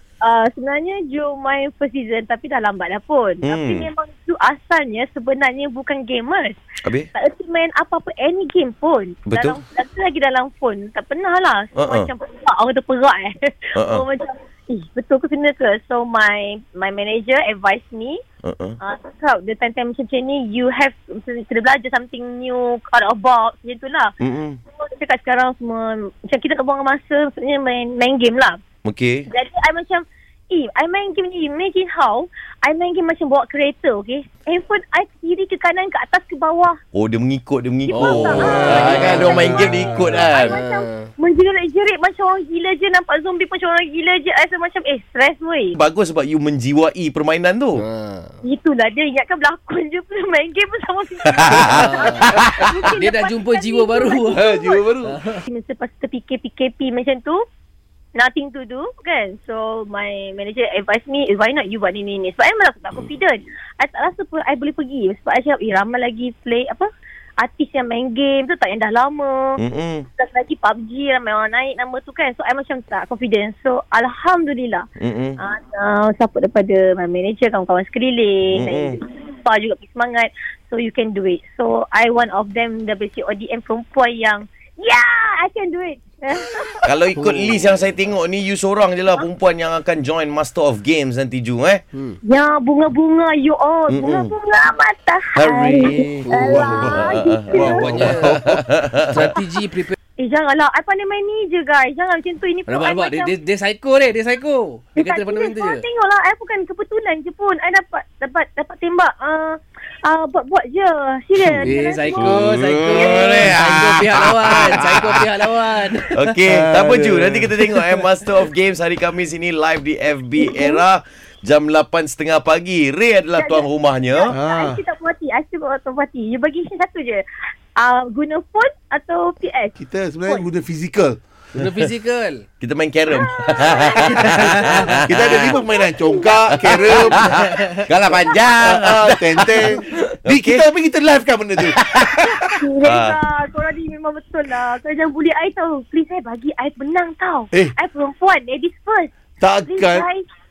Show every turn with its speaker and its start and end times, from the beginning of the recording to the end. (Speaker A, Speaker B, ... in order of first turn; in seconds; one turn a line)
Speaker A: 0.2-6.6
Speaker B: 3.4-3.9
Speaker B: 6.8-7.1
Speaker A: 7.1-18.2
Speaker B: 9.3-9.6
Speaker B: 11.8-12.1
Speaker B: 13.7-14.0
Speaker B: 18.4-18.8
Speaker A: 18.8-24.1
Speaker B: 24.2-24.6
Speaker A: 24.8-28.6
Speaker B: 28.8-29.3
Speaker A: 29.3-36.8
Speaker B: 36.9-40.6
Speaker A: 37.9-45.8
Speaker C: 37.9-41.1
Speaker B: 45.7-47.8
Speaker C: 47.8-48.4
Speaker A: 48.4-54.9
Speaker B: 51.4-51.7
Speaker C: 51.6-55.5
Speaker B: 52.3-52.7
Speaker D: 54.3-55.2
Speaker A: 55.5-57.4
Speaker A: 58.1-66.9
Speaker A: 67.4-69.6
Speaker B: 69.6-70.0
Speaker A: 70.2-74.9
Speaker B: 75.0-75.4
Speaker A: 75.4-87.2
Speaker B: 78.5-79.0
Speaker B: 86.8-91.8
Speaker C: 87.2-87.6
Speaker A: 92.2-97.9
Speaker B: 93.9-94.3
Speaker B: 95.3-99.3
Speaker C: 96.2-97.0
Speaker D: 96.5-96.9
Speaker D: 97.5-98.5
Speaker C: 97.6-100.0
Speaker A: 100.2-103.3
Speaker C: 102.7-105.8
Speaker A: 105.0-112.4
Speaker B: 111.4-115.2
Speaker C: 111.6-116.4
Speaker A: 112.9-113.5
Speaker B: 116.1-124.3
Speaker D: 116.5-118.0
Speaker A: 120.4-120.8
Speaker A: 123.3-127.2
Speaker D: 124.3-124.8
Speaker A: 127.8-130.5
Speaker D: 129.8-131.2
Speaker C: 131.5-132.4
Speaker B: 132.6-135.6
Speaker A: 133.1-134.0
Speaker D: 134.0-137.3
Speaker C: 134.3-134.9
Speaker A: 135.4-137.3
Speaker B: 136.7-140.6
Speaker D: 138.6-142.0
Speaker A: 139.4-139.8
Speaker B: 141.7-143.2
Speaker A: 142.2-149.1
Speaker D: 149.4-150.1
Speaker A: 149.6-150.2